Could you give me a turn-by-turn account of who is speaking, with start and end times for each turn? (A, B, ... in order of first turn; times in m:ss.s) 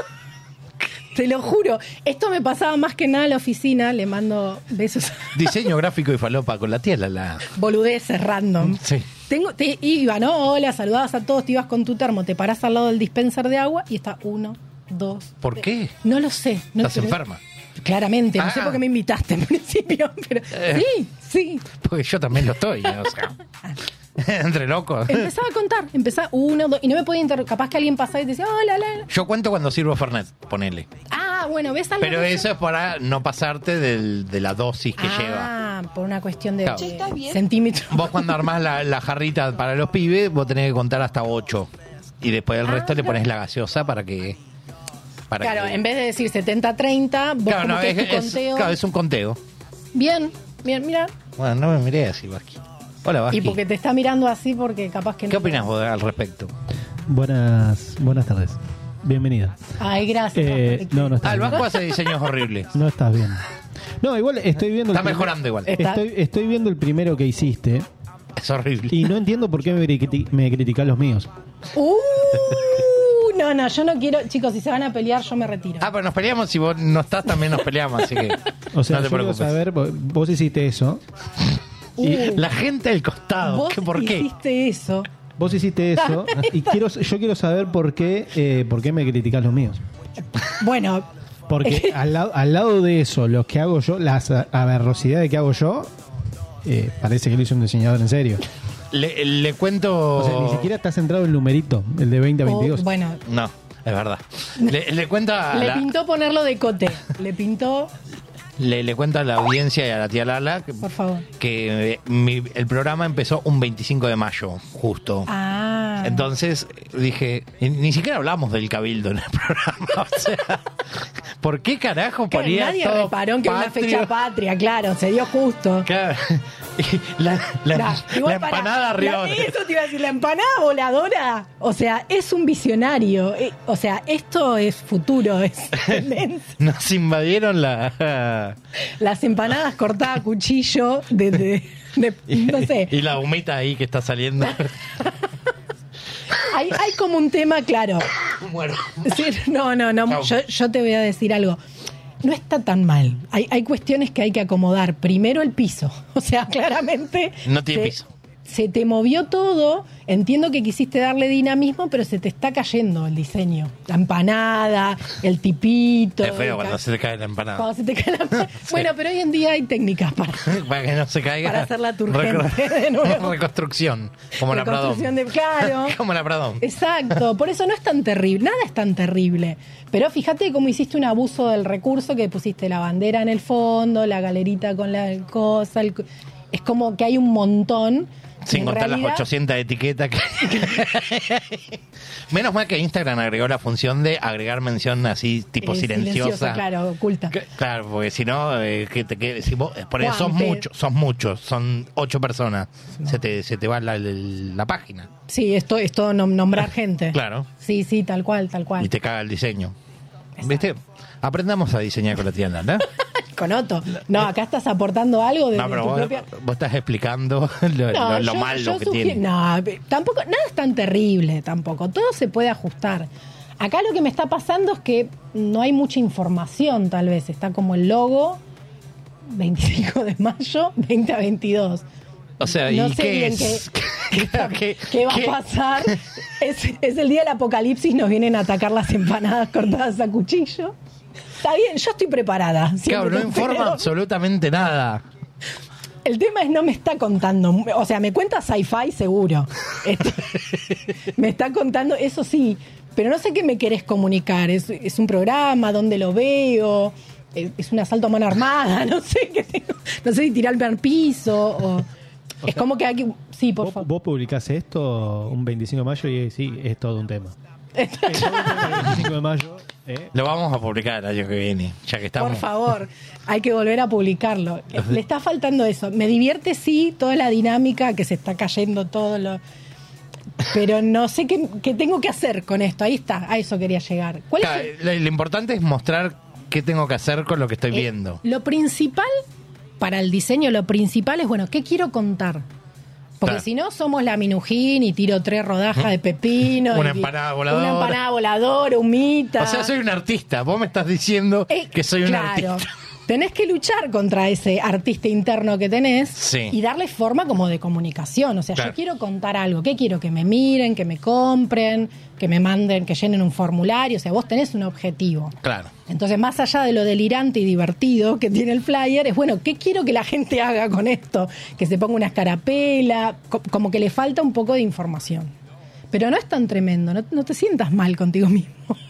0:01.1-0:05.6 A
0:05.3-0:07.5 B
0:07.5-0:17.2 A
0:08.6-0:09.0 B
0:15.4-0:15.9 B
0:16.8-0:17.4 B
0:17.8-0:21.6 A
0:18.4-0:18.8 B
0:20.5-0:20.9 B
0:21.7-0:23.3 B
0:24.2-0:25.3 B
0:25.1-0:29.1 A
0:29.1-0:30.9 B
0:31.1-0:32.5 A
0:32.0-0:35.5 B
0:35.0-0:38.4 A
0:36.6-0:37.2 B
0:37.9-0:41.7 B
0:42.2-0:44.4 B
0:42.6-0:43.2 A
0:45.3-0:45.8 B
0:45.4-0:48.8 A
0:47.5-0:49.4 B
0:49.9-0:51.1 A
0:51.4-0:53.6 B
0:53.3-0:55.6 A
0:55.3-0:56.5 B
0:57.1-0:59.6 C
0:59.8-1:01.8 A
1:00.3-1:01.7 C
1:01.2-1:02.7 B
1:02.7-1:03.4 C
1:04.0-1:07.9 C
1:04.9-1:05.7 B
1:05.7-1:06.0 A
1:08.4-1:09.0 B
1:08.9-1:11.3 C
1:11.7-1:15.9 A
1:15.8-1:19.5 B
1:18.7-1:21.0 C
1:22.0-1:22.4 A
1:22.0-1:24.3 B
1:23.4-1:25.1 A
1:25.4-1:29.8 C
1:26.0-1:26.8 A
1:30.4-1:31.1 A
1:31.5-1:35.9 C
1:31.6-1:32.0 A
1:36.6-1:38.4 C
1:38.9-1:40.7 B
1:40.2-1:42.8 C
1:42.4-1:43.2 A
1:43.2-1:45.9 B
1:45.5-1:47.9 A
1:48.6-1:50.8 B
1:50.8-1:51.2 A
1:51.4-1:55.3 B
1:55.3-1:56.3 A
1:56.0-2:00.6 B
2:01.4-2:04.1 B
2:02.3-2:05.9 A
2:05.8-2:09.6 B
2:07.7-2:16.5 A
2:16.6-2:18.6 B
2:19.0-2:22.9 A
2:22.3-2:24.7 B
2:26.4-2:28.1 A
2:28.4-2:29.2 B
2:29.0-2:31.6 A
2:30.1-2:30.3 B
2:32.2-2:46.8 A
2:37.4-2:38.0 B
2:46.2-2:47.7 B
2:47.6-2:50.6 A
2:48.5-2:48.8 B
2:50.4-2:56.6 B
2:51.4-2:53.4 A
2:54.4-2:56.0 A
2:56.6-3:09.2 A
3:08.4-3:11.6 B
3:12.3-3:16.6 B
3:15.6-3:17.3 A
3:17.3-3:25.1 B
3:20.0-3:20.6 A
3:25.3-3:28.9 A
3:27.1-3:27.5 B
3:28.8-3:29.7 B
3:30.4-3:30.6 A
3:30.4-3:32.8 B
3:33.2-3:36.2 A
3:35.5-3:39.2 B
3:37.9-3:43.1 A
3:43.6-3:48.4 A
3:49.3-3:51.8 A
3:52.4-3:55.9 B
3:52.5-4:00.7 A
4:01.4-4:03.9 A
4:02.9-4:05.0 B
4:06.0-4:10.4 A
4:11.1-4:21.8 A
4:22.4-4:23.9 A
4:23.6-4:27.4 C
4:27.8-4:28.9 A
4:28.1-4:30.1 C
4:30.1-4:32.4 B
4:32.2-4:39.4 A
4:40.4-4:44.7 A
4:44.4-4:48.2 B
4:47.7-4:49.1 A
4:49.8-4:52.4 A
4:53.2-4:59.7 A
4:56.5-4:58.0 B
4:59.4-5:02.6 B
5:01.5-5:15.4 A
5:06.2-5:06.5 B
5:15.4-5:15.7 B
5:15.9-5:25.3 A
5:25.9-5:28.8 A